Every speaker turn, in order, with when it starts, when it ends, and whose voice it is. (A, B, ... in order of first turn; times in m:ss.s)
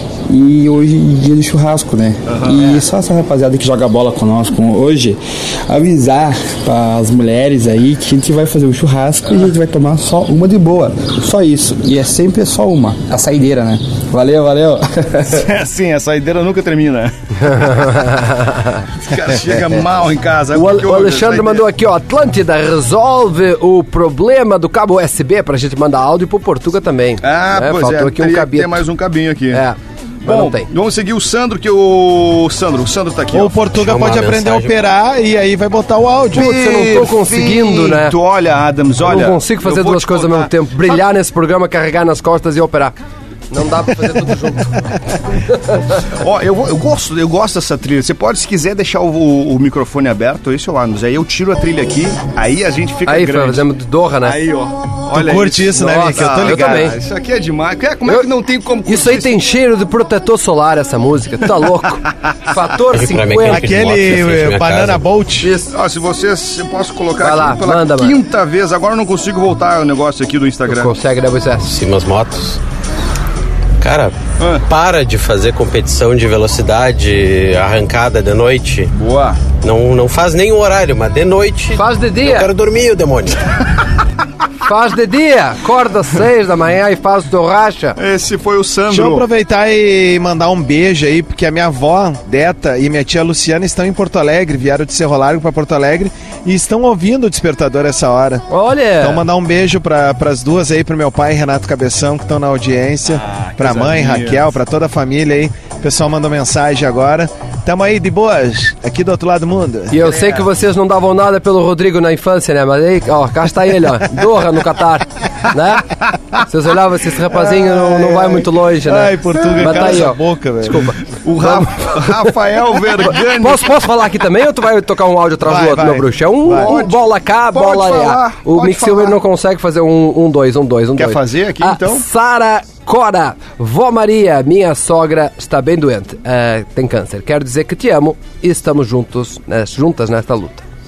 0:00.3-0:15.4 A
0:02.3-0:02.8 B
0:15.3-0:17.8 B
0:17.5-0:18.8 C
0:19.0-0:21.7 B
0:20.5-0:28.8 C
0:27.2-0:29.6 B
0:29.5-0:30.7 C
0:30.2-0:33.6 B
0:33.3-0:36.5 D
0:33.7-0:34.8 E
0:36.3-0:38.1 C
0:36.3-0:40.5 B
0:39.0-0:42.9 C
0:43.5-0:44.8 C
0:45.5-0:45.9 C
0:46.1-0:53.7 B
0:53.1-0:54.4 C
0:54.2-0:59.3 B
0:55.1-0:56.9 D
0:55.7-0:56.9 C
0:58.8-1:03.8 C
1:02.9-1:05.0 E
1:03.5-1:05.5 D
1:05.4-1:05.7 C
1:05.7-1:10.9 B
1:07.2-1:08.2 C
1:10.7-1:11.7 C
1:11.6-1:12.6 E
1:13.8-1:14.2 E
1:14.4-1:14.7 B
1:14.7-1:18.9 E
1:18.9-1:19.4 B
1:19.6-1:23.4 E
1:21.7-1:22.5 C
1:24.6-1:28.0 C
1:28.0-1:29.2 B
1:28.9-1:38.4 D
1:38.5-1:39.2 C
1:39.0-1:50.0 D
1:43.1-1:44.4 B
1:49.9-1:55.9 C
1:56.4-2:02.3 C
1:57.3-2:00.9 D
1:59.6-1:59.9 B
2:01.2-2:03.7 B
2:03.1-2:20.6 C
2:05.4-2:06.7 D
2:06.4-2:09.2 B
2:11.0-2:12.0 B